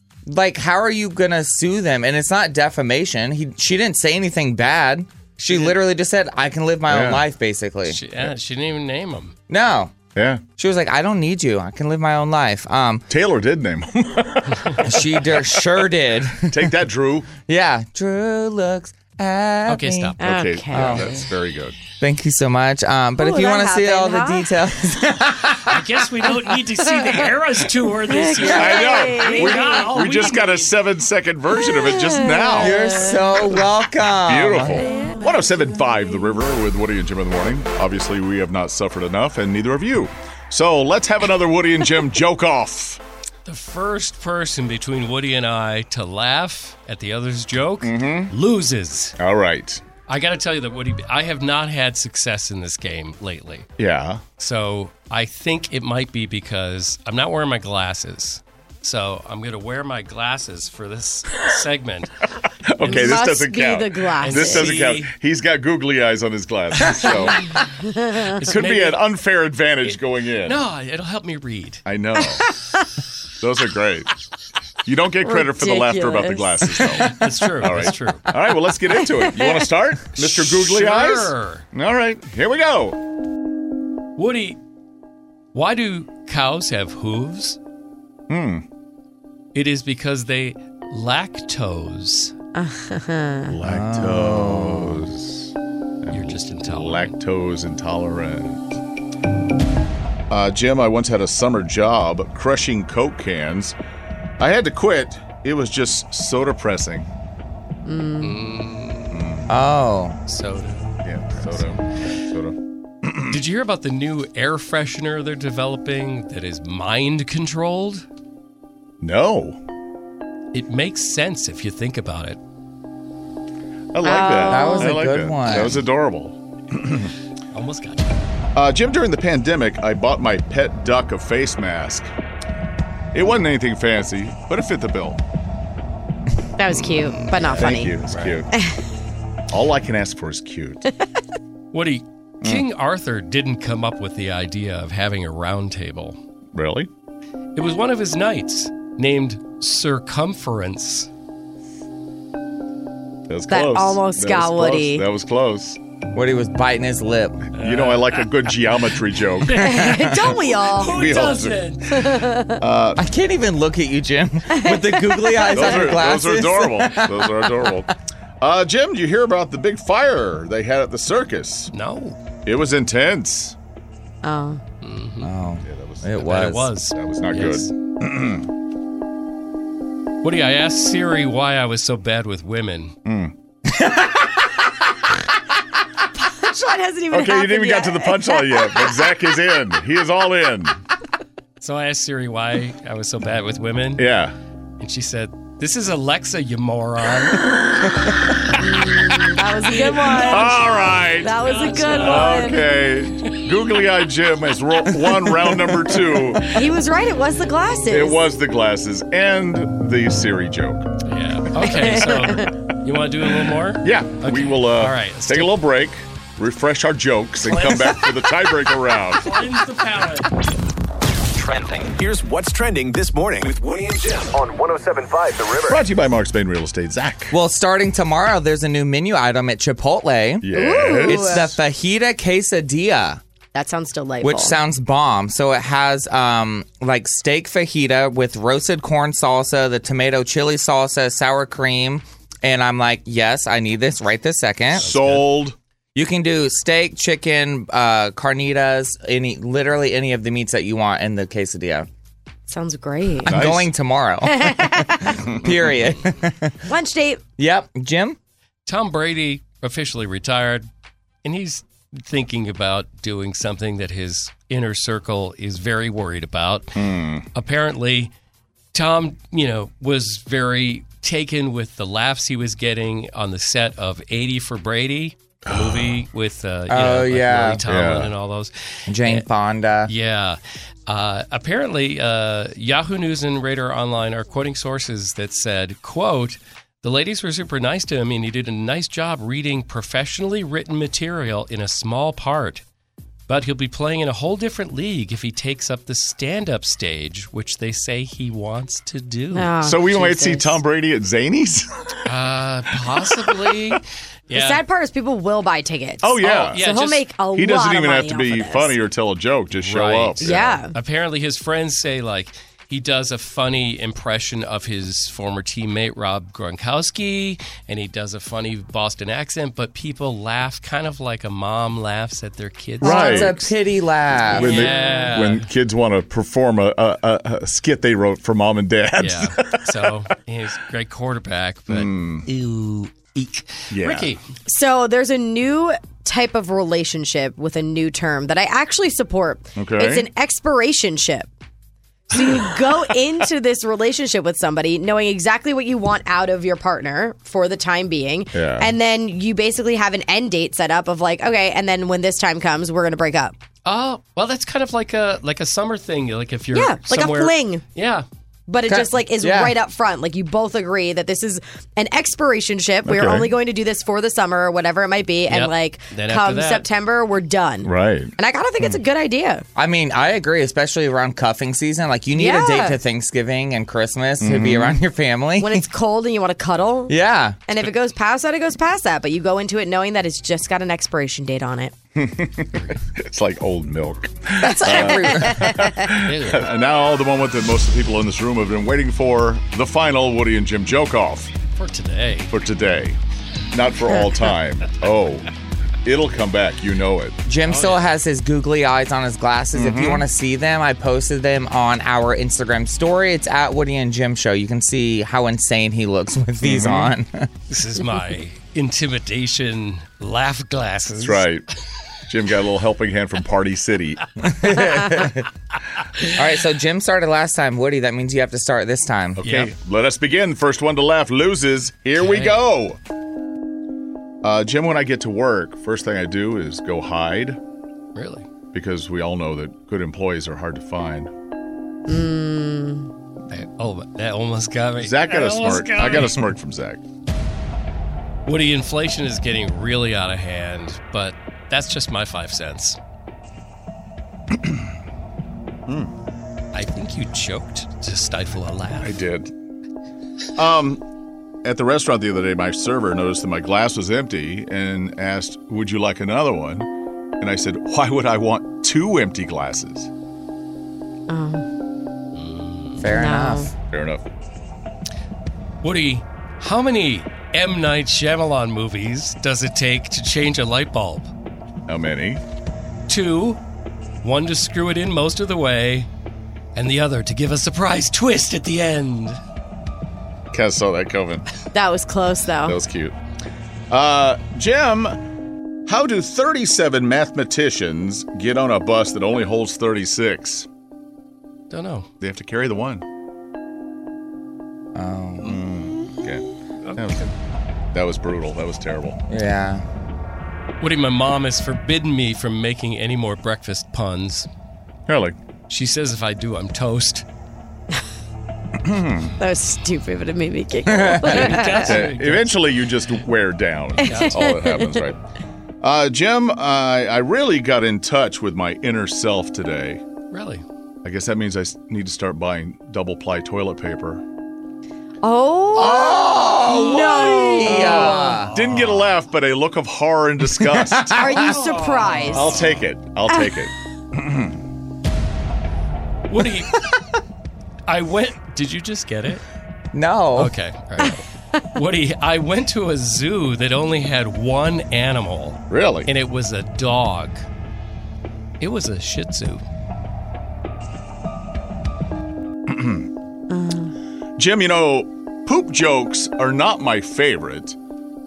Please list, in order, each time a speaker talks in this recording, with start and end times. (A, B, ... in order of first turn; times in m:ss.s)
0:00.3-0:08.0 A
0:05.5-0:05.7 B
0:06.9-0:07.2 C
0:07.9-0:09.3 B
0:09.5-0:09.9 A
0:10.1-0:10.4 C
0:10.6-0:13.1 A
0:13.1-0:15.4 C
0:14.8-0:16.7 A
0:16.5-0:17.3 C
0:17.5-0:20.2 A
0:19.7-0:20.2 B
0:20.2-0:21.1 D
0:20.2-0:21.8 C
0:20.7-0:21.2 A
0:22.0-0:25.8 A
0:23.2-0:24.5 D
0:25.6-0:30.7 B
0:28.1-0:30.3 D
0:28.5-0:32.9 C
0:31.6-0:33.5 D
0:32.6-0:34.9 A
0:34.2-0:43.0 C
0:34.7-0:35.2 D
0:43.4-0:49.2 B
0:47.8-0:48.3 C
0:49.2-0:49.8 C
0:50.1-0:53.7 B
0:53.8-0:54.2 C
0:54.4-1:02.1 B
1:02.7-1:07.4 C
1:02.8-1:03.2 B
1:02.8-1:04.7 D
1:04.2-1:05.1 B
1:06.9-1:07.4 B
1:07.7-1:08.4 D
1:08.3-1:09.0 B
1:08.5-1:10.6 C
1:09.8-1:11.8 B
1:11.8-1:12.5 C
1:12.4-1:12.8 D
1:13.4-1:14.1 C
1:14.8-1:23.0 C
1:15.2-1:17.1 D
1:17.1-1:18.3 B
1:19.2-1:19.6 D
1:20.1-1:21.6 B
1:24.2-1:24.6 B
1:25.5-1:27.6 B
1:28.3-1:28.6 C
1:29.5-1:32.3 B
1:32.5-1:33.5 D
1:33.5-1:38.6 C
1:33.6-1:35.1 A
1:36.1-1:37.1 B
1:40.3-1:43.8 C
1:44.4-1:47.1 C
1:47.8-1:48.3 D
1:48.2-1:49.2 B
1:49.1-1:49.5 C
1:49.5-1:50.2 A
1:50.3-1:51.7 B
1:51.0-1:53.4 C
1:53.3-1:58.0 B
1:59.0-1:59.6 C
2:00.5-2:02.4 B
2:03.9-2:07.1 C
2:04.0-2:05.0 D
2:04.4-2:05.8 A
2:07.5-2:08.1 B
2:08.5-2:12.1 C
2:13.1-2:15.2 C
2:16.6-2:17.9 D
2:16.9-2:18.4 B
2:17.5-2:18.5 C
2:19.5-2:20.8 C
2:21.7-2:26.2 B
2:26.5-2:26.9 C
2:27.5-2:31.1 B
2:33.3-2:35.8 C
2:33.5-2:35.0 D
2:36.1-2:37.5 A
2:37.5-2:38.8 B
2:37.6-2:39.9 C
2:39.4-2:42.0 B
2:39.5-2:41.1 D
2:40.8-2:42.0 C
2:41.9-2:42.6 D
2:42.6-2:43.0 C
2:43.0-2:47.7 A
2:44.5-2:46.0 D
2:45.5-2:51.7 C
2:51.7-2:52.2 B
2:52.4-2:53.6 C
2:54.2-2:54.6 D
2:54.8-2:55.3 B
2:55.2-2:56.7 A
2:55.6-2:56.2 C
2:56.2-2:57.7 B
2:56.9-2:58.5 C
3:00.2-3:03.0 B
3:03.0-3:03.3 C
3:03.7-3:04.3 A
3:06.2-3:09.1 D
3:07.1-3:10.8 C
3:11.6-3:14.1 B
3:14.0-3:14.3 C
3:14.8-3:17.5 B
3:18.6-3:22.6 D
3:19.7-3:22.6 B
3:20.1-3:26.6 C
3:26.5-3:28.2 D
3:27.9-3:30.9 C
3:31.0-3:35.6 B
3:31.6-3:32.5 D
3:33.8-3:39.3 C
3:37.4-3:38.3 B
3:39.1-3:40.3 B
3:41.4-3:45.8 E
3:45.7-3:47.3 C
3:47.3-3:53.2 A
3:50.4-3:51.6 C
3:50.5-3:51.5 D
3:53.5-3:54.6 D
3:54.2-4:04.9 A
4:04.8-4:05.4 B
4:04.8-4:05.6 C
4:05.9-4:11.9 A
4:12.5-4:13.4 D
4:13.2-4:13.7 C
4:13.2-4:16.6 A
4:14.2-4:15.2 D
4:16.6-4:17.2 D
4:17.4-4:18.2 A
4:18.6-4:20.7 B
4:21.2-4:26.8 B
4:26.8-4:27.2 C
4:27.3-4:28.1 B
4:28.7-4:39.2 B
4:35.5-4:36.0 C
4:36.7-4:37.6 A
4:37.7-4:38.1 C
4:38.9-4:39.9 A
4:39.9-4:52.6 B
4:53.3-4:59.5 B
4:59.3-5:00.6 D
4:59.6-5:02.0 C
5:02.0-5:04.6 B
5:03.0-5:03.8 C
5:04.3-5:08.7 D
5:06.0-5:06.6 C
5:06.2-5:07.1 B
5:07.3-5:10.6 C
5:09.6-5:23.5 B
5:10.2-5:10.7 D
5:22.8-5:24.7 A
5:22.8-5:23.4 C
5:24.3-5:29.7 C
5:24.3-5:25.5 B
5:24.8-5:25.1 D
5:29.0-5:34.2 B
5:31.7-5:32.3 C
5:33.7-5:34.1 C
5:34.4-5:41.3 D
5:39.6-5:40.1 C
5:42.1-5:53.3 D
5:48.3-5:48.7 C
5:53.6-5:58.0 B
5:56.5-5:57.6 D
5:58.5-6:09.4 D
5:58.7-5:59.5 A
6:02.8-6:03.3 C
6:05.3-6:06.6 B
6:07.6-6:08.1 C
6:09.6-6:15.6 A
6:12.2-6:12.8 D
6:14.2-6:14.8 C
6:15.4-6:16.9 D
6:16.9-6:17.4 A
6:17.5-6:21.7 D
6:21.9-6:31.3 C
6:22.5-6:22.8 B
6:24.4-6:25.9 D
6:24.6-6:25.5 A
6:26.0-6:26.5 B
6:31.5-6:32.3 B
6:32.3-6:33.0 C
6:33.5-6:35.3 C
6:35.8-6:37.2 C
6:37.2-6:47.3 A
6:37.5-6:37.9 B
6:39.5-6:40.0 C
6:46.4-6:46.9 C
6:47.5-6:51.3 B
6:51.0-6:51.4 C
6:52.1-6:54.2 C
6:54.2-6:55.3 A
6:56.0-6:59.2 A
6:59.2-7:02.8 C
6:59.2-6:59.5 B
7:02.0-7:02.4 B
7:04.2-7:07.4 C
7:07.9-7:08.3 B
7:08.5-7:11.1 C
7:11.9-7:12.9 D
7:13.3-7:16.3 B
7:14.8-7:16.8 C
7:18.2-7:22.8 B
7:24.4-7:24.6 C
7:25.7-7:25.9 C
7:26.5-7:29.0 B
7:28.8-7:29.3 C
7:30.4-7:30.8 C
7:31.4-7:36.7 C
7:37.2-7:39.9 C
7:41.1-7:41.4 D
7:42.1-7:42.8 B
7:42.8-7:43.5 A
7:42.9-7:43.5 D
7:43.7-7:44.0 C
7:45.6-7:51.1 B
7:51.7-7:52.2 C
7:52.9-7:53.4 B
7:54.0-7:55.9 B
7:56.5-7:59.2 B
8:00.3-8:01.2 C
8:01.5-8:02.6 D
8:02.4-8:02.9 C
8:03.7-8:05.0 C
8:05.6-8:10.5 C
8:11.5-8:11.9 B
8:12.0-8:12.8 C
8:14.7-8:15.4 A
8:15.2-8:17.0 C
8:16.6-8:17.1 B
8:17.7-8:19.0 C
8:19.1-8:19.6 A
8:20.6-8:24.3 B
8:24.9-8:25.2 C
8:25.5-8:27.0 B
8:28.6-8:29.2 C
8:29.2-8:31.8 D
8:30.7-8:31.3 A
8:31.0-8:32.7 B
8:31.6-8:35.0 C
8:33.8-8:34.2 B
8:33.8-8:34.7 D
8:35.6-8:39.8 C
8:40.1-8:40.4 B
8:40.8-8:44.0 C
8:45.0-8:48.2 D
8:45.5-8:48.3 A
8:47.3-8:51.1 C
8:48.3-8:48.9 B
8:50.4-8:51.3 A
8:50.9-8:52.3 D
8:51.2-8:52.5 B
8:52.1-8:54.4 C
8:56.1-8:56.6 B
8:57.7-8:59.2 B
8:59.7-9:00.3 A
9:00.2-9:07.2 B
9:05.5-9:05.9 C
9:08.4-9:09.4 B
9:12.5-9:12.9 C
9:13.3-9:13.7 D
9:14.2-9:17.6 C